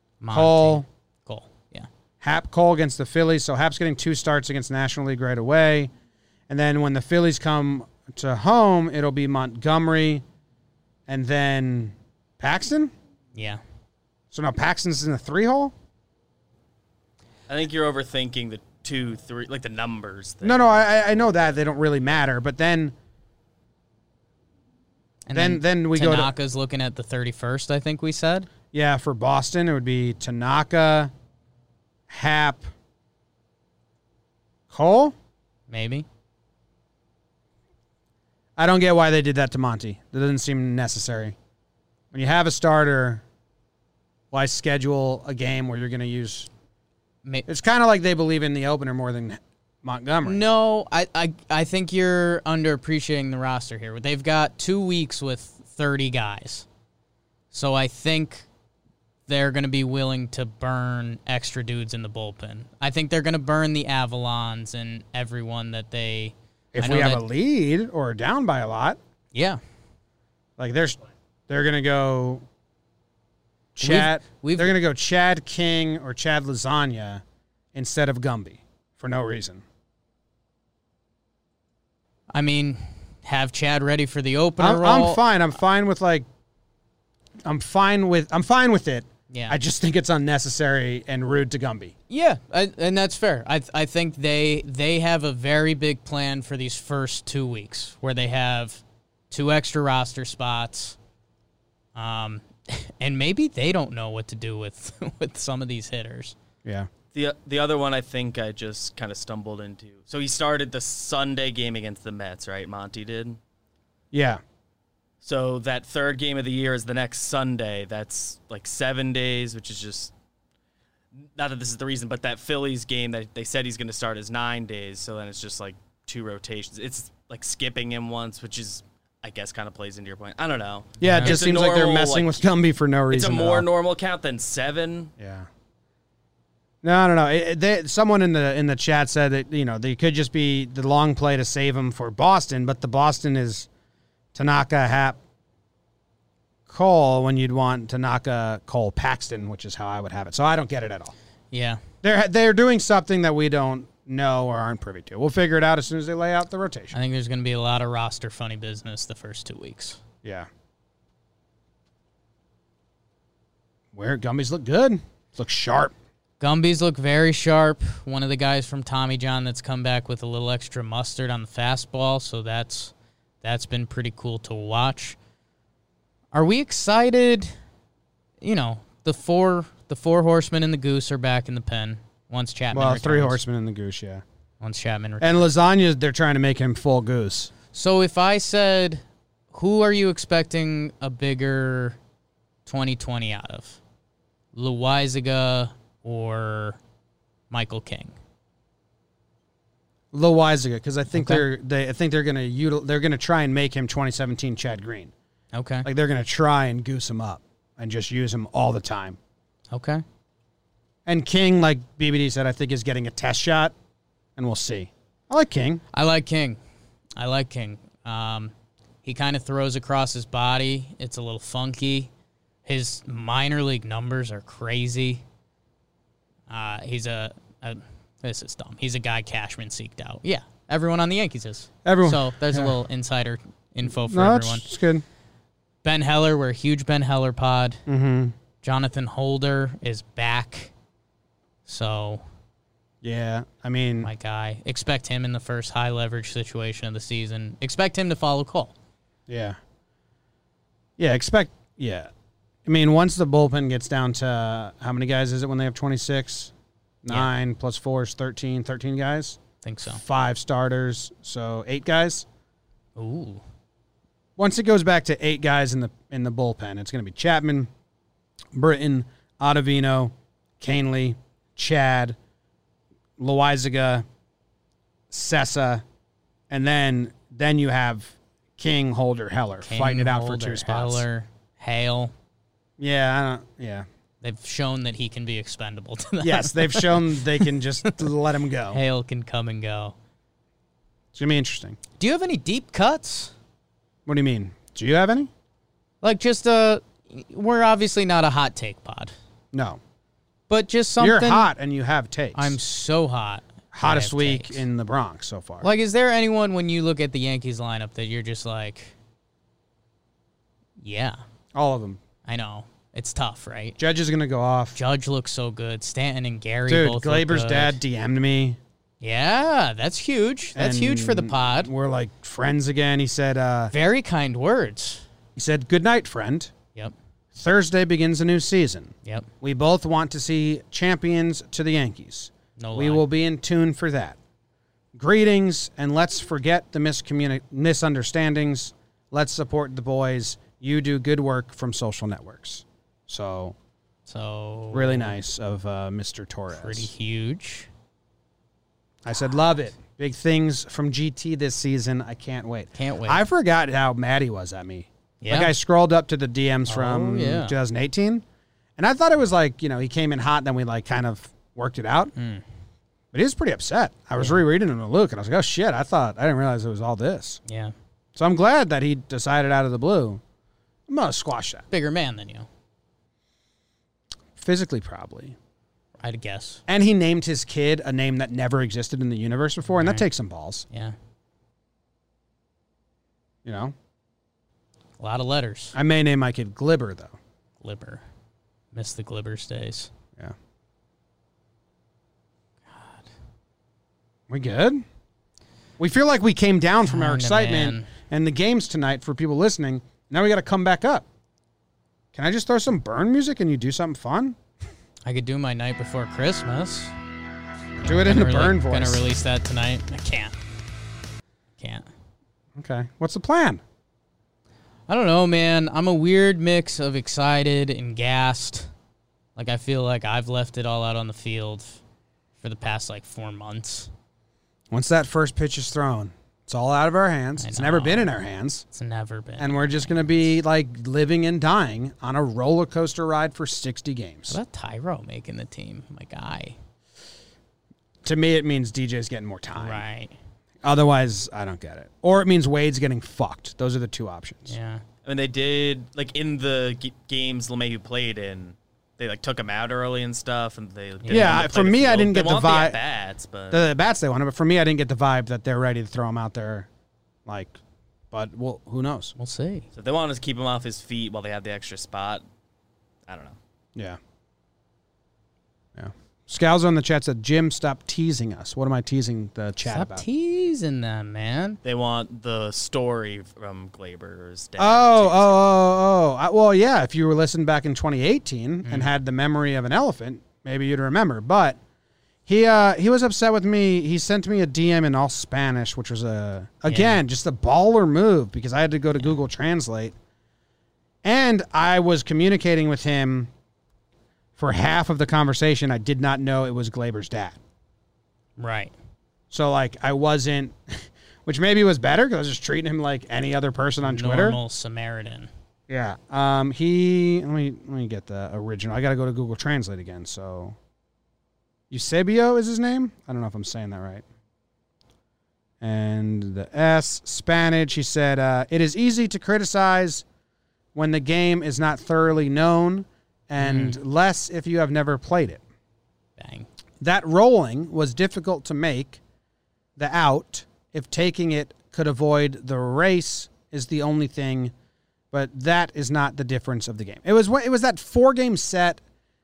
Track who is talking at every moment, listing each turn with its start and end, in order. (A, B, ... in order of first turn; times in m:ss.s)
0:00.2-0:01.9 A
0:00.3-0:00.8 B
0:02.2-0:05.9 B
0:06.5-0:10.2 B
0:11.1-0:12.9 B
0:13.3-0:13.6 A
0:14.3-0:15.7 B
0:17.5-0:21.0 C
0:20.4-0:22.9 B
0:25.2-0:28.5 A
0:25.3-0:26.3 B
0:28.7-0:31.1 B
0:32.1-0:32.7 B
0:34.7-0:35.1 B
0:35.7-0:36.0 A
0:38.6-0:41.4 B
0:42.1-0:43.2 B
0:44.3-0:46.5 B
0:47.5-0:50.4 B
0:50.2-0:56.6 A
0:57.5-0:58.5 A
0:59.3-1:07.2 A
1:06.7-1:09.0 B
1:09.3-1:09.6 A
1:10.6-1:12.4 B
1:13.8-1:17.2 B
1:13.8-1:14.7 A
1:17.7-1:19.6 B
1:22.3-1:25.2 A
1:24.6-1:26.3 B
1:27.4-1:31.9 B
1:29.3-1:29.6 A
1:32.1-1:41.0 A
1:41.9-1:46.3 A
1:47.1-1:53.4 C
1:54.1-1:54.4 B
1:55.2-2:00.1 C
2:01.2-2:12.4 C
2:11.0-2:13.6 B
2:11.0-2:11.4 A
2:13.1-2:15.1 C
2:15.2-2:15.5 B
2:16.8-2:23.7 B
2:24.3-2:25.2 B
2:26.7-2:31.1 B
2:31.5-2:31.8 A
2:32.0-2:37.0 B
2:36.9-2:40.0 A
2:43.9-2:45.9 B
2:46.4-2:55.2 A
2:56.3-2:57.5 A
2:58.4-3:03.4 A
3:02.7-3:04.2 B
3:04.6-3:05.5 A
3:05.2-3:07.5 B
3:07.7-3:12.0 A
3:12.6-3:13.8 A
3:14.5-3:16.8 A
3:17.5-3:18.1 A
3:20.1-3:25.1 B
3:21.1-3:21.4 A
3:25.5-3:25.9 A
3:25.8-3:29.2 B
3:29.7-3:30.0 A
3:31.0-3:33.7 B
3:34.4-3:35.8 B
3:35.9-3:36.6 A
3:37.2-3:38.5 A
3:39.0-3:42.1 A
3:42.6-3:45.2 A
3:46.5-3:54.7 A
3:51.8-3:52.8 B
3:53.8-3:55.0 B
3:55.8-3:57.8 A
3:57.9-3:58.3 B
3:58.6-4:00.7 A
4:01.6-4:02.2 A
4:03.0-4:04.1 B
4:04.0-4:08.7 A
4:09.3-4:09.6 B
4:11.0-4:12.1 B
4:12.6-4:16.5 B
4:17.0-4:22.2 B
4:19.6-4:20.0 A
4:23.0-4:23.4 A
4:24.4-4:27.7 B
4:28.5-4:32.2 B
4:33.2-4:34.0 B
4:35.1-4:35.8 B
4:36.5-4:41.0 B
4:39.6-4:42.1 A
4:42.8-4:43.8 B
4:44.2-4:48.1 A
4:46.2-4:48.8 B
4:48.7-4:49.9 A
4:51.1-4:51.8 B
4:52.0-4:53.3 A
4:54.0-4:55.3 B
4:56.0-4:59.1 A
4:59.5-4:59.8 B
5:00.5-5:01.5 A
5:01.0-5:02.6 B
5:02.3-5:04.6 A
5:03.7-5:05.7 B
5:05.6-5:08.9 A
5:10.8-5:11.2 A
5:11.5-5:12.0 B
5:12.2-5:13.8 A
5:13.8-5:14.8 B
5:14.7-5:17.8 A
5:16.7-5:18.6 B
5:19.0-5:21.7 A
5:20.6-5:23.7 B
5:23.7-5:25.0 A
5:25.4-5:26.5 B
5:27.3-5:34.2 B
5:32.6-5:33.0 A
5:34.9-5:43.6 B
5:44.0-5:45.1 A
5:44.7-5:46.9 B
5:46.5-5:47.7 A
5:49.0-5:58.2 B
5:52.7-5:53.2 A
5:55.2-5:55.5 A
5:56.7-5:57.6 A
5:58.8-6:02.1 B
6:02.2-6:02.4 A
6:03.1-6:07.4 B
6:07.5-6:07.7 A
6:08.1-6:10.2 B
6:10.9-6:11.6 B
6:11.7-6:12.5 A
6:14.4-6:15.4 B
6:16.0-6:16.6 A
6:16.7-6:20.6 B
6:19.7-6:20.0 A
6:20.7-6:21.0 A
6:23.4-6:23.7 B
6:25.0-6:25.8 A
6:25.7-6:27.2 B
6:27.6-6:28.0 A
6:28.7-6:29.9 A
6:32.7-6:33.0 A
6:34.3-6:34.8 B
6:35.8-6:41.0 B
6:36.8-6:37.9 A
6:42.1-6:44.4 B
6:45.0-6:46.9 A
6:47.8-6:49.0 B
6:47.9-6:50.4 A
6:51.6-6:51.8 A
6:52.6-6:53.6 B
6:54.9-6:58.7 A
6:59.4-7:01.8 A
7:02.4-7:03.9 A
7:04.7-7:08.6 B
7:07.4-7:08.1 A
7:08.7-7:10.3 A
7:09.4-7:14.4 B
7:14.3-7:16.6 A
7:18.0-7:19.8 B
7:19.5-7:20.1 A
7:20.6-7:24.6 B
7:24.5-7:24.8 A
7:25.0-7:33.7 C
7:31.0-7:31.5 A
7:31.1-7:32.8 B
7:33.5-7:36.7 B
7:37.2-7:37.6 B
7:38.1-7:39.1 B
7:39.2-7:39.6 A
7:39.7-7:42.2 C
7:43.1-7:43.4 C
7:45.8-7:50.0 B
7:49.6-7:51.6 A
7:51.6-7:55.6 C
7:54.6-8:01.6 B
7:58.6-7:58.9 A
8:02.3-8:09.9 B
8:06.7-8:07.0 A
8:11.0-8:13.3 B
8:14.4-8:17.4 B
8:18.4-8:18.7 A
8:19.3-8:24.4 B
8:23.8-8:25.3 A
8:25.7-8:30.6 B
8:31.7-8:34.0 B
8:35.6-8:40.0 B
8:40.7-8:45.4 B
8:43.4-8:43.8 A
8:46.2-8:46.5 A
8:46.8-8:49.0 B
8:49.8-8:54.5 B
8:55.1-8:58.8 B